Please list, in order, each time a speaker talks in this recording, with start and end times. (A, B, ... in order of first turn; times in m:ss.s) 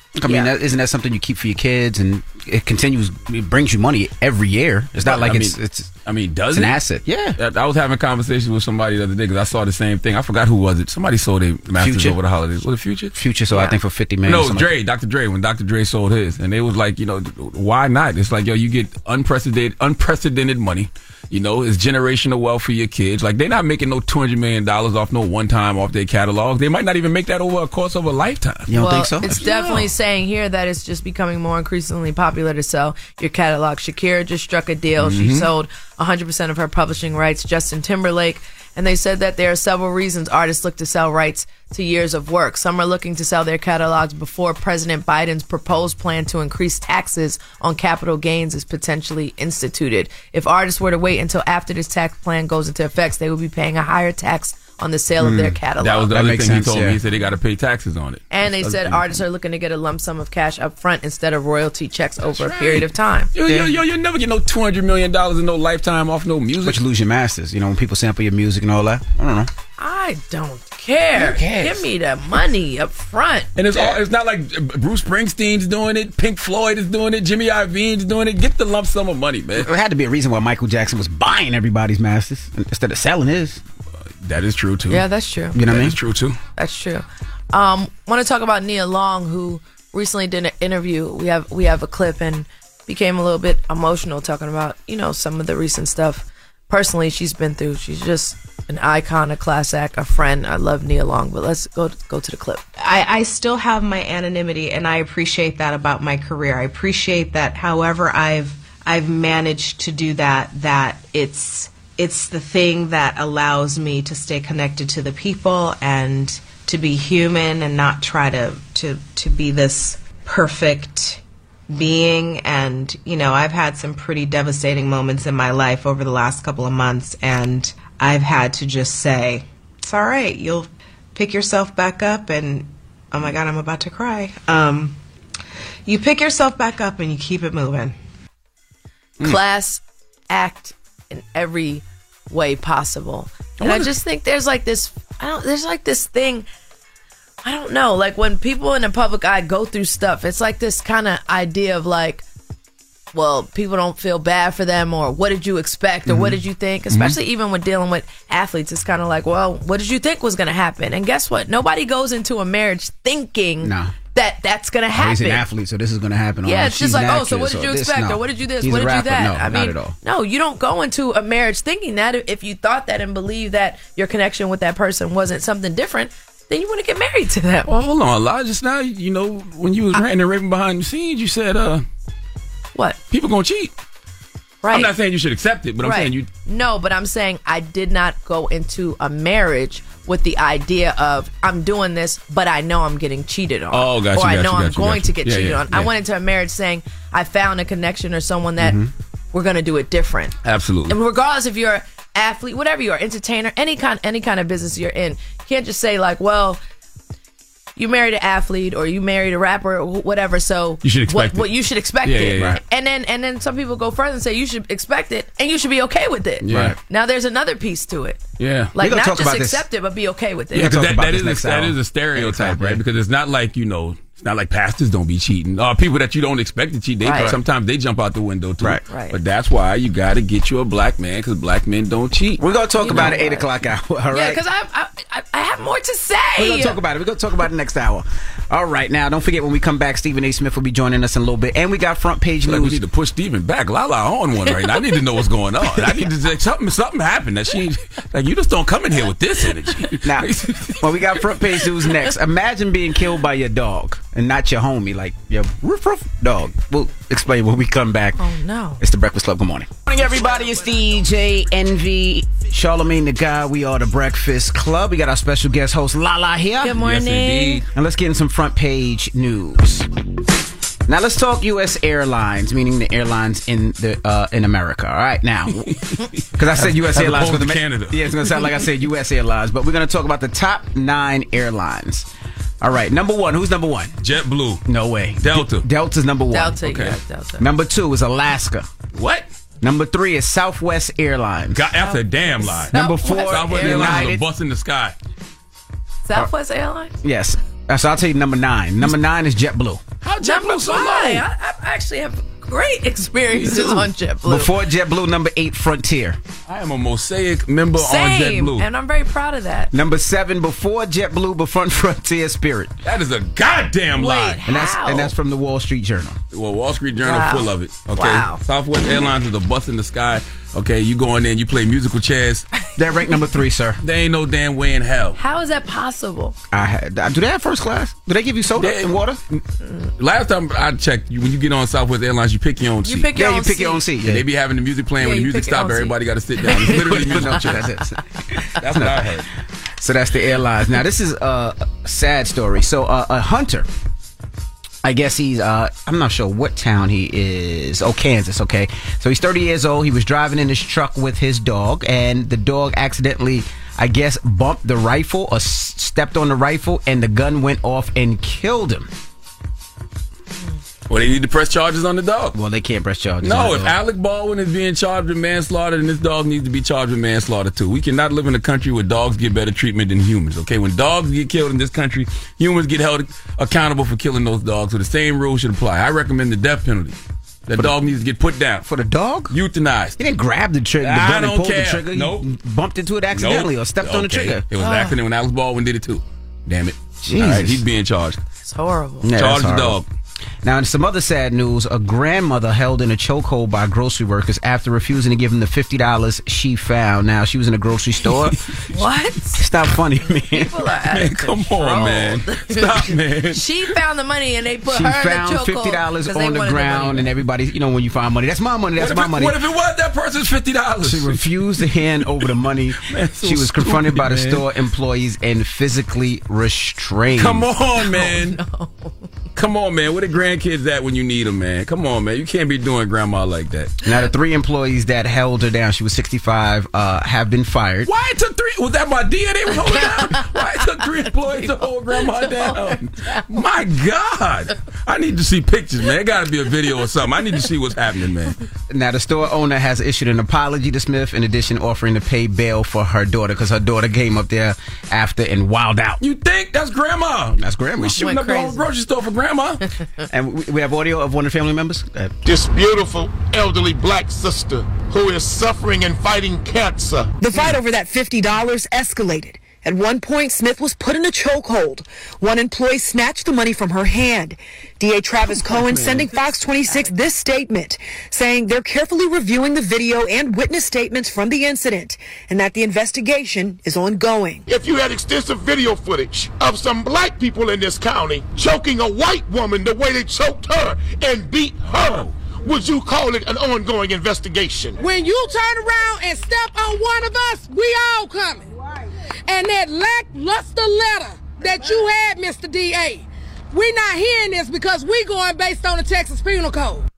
0:00.2-0:05.9 A
0:05.0-0:06.8 B
0:06.5-0:07.4 A
0:07.4-0:13.1 B
0:11.8-0:12.2 A
0:13.1-0:14.7 A
0:14.3-0:28.7 B
0:28.7-0:29.4 A
0:28.8-0:56.1 C
0:29.3-0:29.9 B
0:35.0-0:35.5 B
0:55.2-0:55.6 A
0:55.8-0:59.0 B
0:56.1-0:57.0 A
0:58.3-1:03.3 C
1:03.3-1:06.8 B
1:03.5-1:03.7 A
1:06.6-1:09.5 A
1:09.8-1:13.5 C
1:11.2-1:11.8 B
1:13.6-1:19.7 B
1:19.6-1:23.6 A
1:24.2-1:25.0 B
1:24.9-1:25.6 C
1:25.5-1:26.0 A
1:25.7-1:26.4 B
1:26.6-1:42.6 C
1:42.8-2:15.0 D
2:15.9-2:18.0 D
2:19.2-2:26.5 C
2:27.4-2:32.2 C
2:33.1-2:45.4 C
2:36.1-2:36.4 A
2:43.6-2:43.9 A
2:45.0-2:50.0 A
2:46.4-2:57.7 C
2:57.7-3:01.9 B
3:03.1-3:03.8 B
3:04.6-3:04.9 C
3:04.7-3:06.3 B
3:05.8-3:18.8 C
3:13.7-3:15.9 B
3:18.6-3:18.9 A
3:19.3-3:20.4 C
3:20.4-3:21.0 B
3:20.9-3:26.6 C
3:27.8-3:38.2 C
3:30.8-3:31.5 B
3:32.0-3:32.6 B
3:36.5-3:36.8 B
3:36.5-3:36.8 A
3:38.4-3:38.7 B
3:38.7-3:40.8 C
3:38.8-3:39.6 A
3:40.5-3:52.4 B
3:40.6-3:42.8 A
3:47.0-3:47.3 C
3:48.9-3:49.2 C
3:52.4-3:54.4 A
3:52.8-3:53.5 C
3:54.1-3:56.8 C
3:56.4-4:02.8 A
4:02.5-4:10.8 B
4:04.5-4:04.8 C
4:10.8-4:18.2 A
4:18.2-4:18.8 C
4:18.8-4:26.8 A
4:20.1-4:20.9 C
4:26.6-4:27.6 C
4:26.7-4:27.6 B
4:27.7-4:29.9 A
4:30.9-4:35.7 A
4:35.8-4:36.0 B
4:36.4-4:42.1 A
4:36.6-4:38.0 B
4:42.6-4:43.9 A
4:44.0-4:44.7 B
4:44.7-4:46.6 A
4:45.2-4:45.7 B
4:46.3-4:47.4 C
4:46.6-4:47.0 B
4:47.4-4:48.7 A
4:48.9-4:49.3 B
4:49.6-4:51.7 A
4:51.5-4:55.0 B
4:51.8-4:54.2 C
4:52.7-4:54.1 A
4:56.0-4:56.9 C
4:57.0-4:59.8 A
5:00.0-5:01.2 B
5:00.2-5:04.5 C
5:03.4-5:03.7 A
5:04.3-5:06.2 A
5:06.5-5:08.6 B
5:07.8-5:09.7 C
5:09.7-5:12.7 A
5:12.8-5:14.4 B
5:14.0-5:15.1 C
5:14.5-5:16.2 A
5:16.3-5:22.5 B
5:17.0-5:18.4 C
5:22.8-5:23.8 A
5:23.8-5:25.2 B
5:25.2-5:26.4 C
5:26.5-5:29.2 A
5:28.6-5:29.4 B
5:29.6-5:29.9 C
5:30.0-5:33.1 B
5:32.8-5:33.8 C
5:33.2-5:34.2 A
5:34.0-5:37.6 B
5:35.0-5:37.4 C
5:36.7-5:39.2 A
5:38.6-5:39.3 B
5:39.8-5:43.7 A
5:44.8-5:58.9 A
6:00.9-6:02.4 B
6:02.4-6:03.8 A
6:03.2-6:18.6 B
6:18.6-6:19.3 A
6:19.3-6:20.0 B
6:20.0-6:24.4 A
6:20.8-6:22.3 B
6:23.1-6:28.2 B
6:24.6-6:25.0 C
6:27.1-6:27.6 A
6:28.4-6:29.1 C
6:29.0-6:29.8 A
6:29.2-6:29.9 B
6:30.4-6:38.4 A
6:38.7-6:39.4 C
6:39.4-6:40.5 A
6:40.1-6:47.0 C
6:40.9-6:43.4 B
6:44.7-6:49.3 A
6:48.8-6:51.2 B
6:50.8-6:57.5 A
6:52.9-6:54.4 B
6:57.2-6:58.4 B
6:57.8-6:59.0 C
6:59.4-7:03.8 B
7:03.8-7:07.9 A
7:07.8-7:18.4 B
7:09.6-7:10.6 C
7:12.2-7:13.2 C
7:18.7-7:26.0 A
7:26.0-7:29.6 B
7:27.4-7:28.0 A
7:28.0-7:28.7 C
7:30.1-7:32.1 A
7:32.2-7:37.6 E
7:37.2-7:54.4 F
7:54.5-8:04.8 E
8:01.8-8:02.1 B
8:04.8-8:08.5 G
8:09.3-8:16.8 G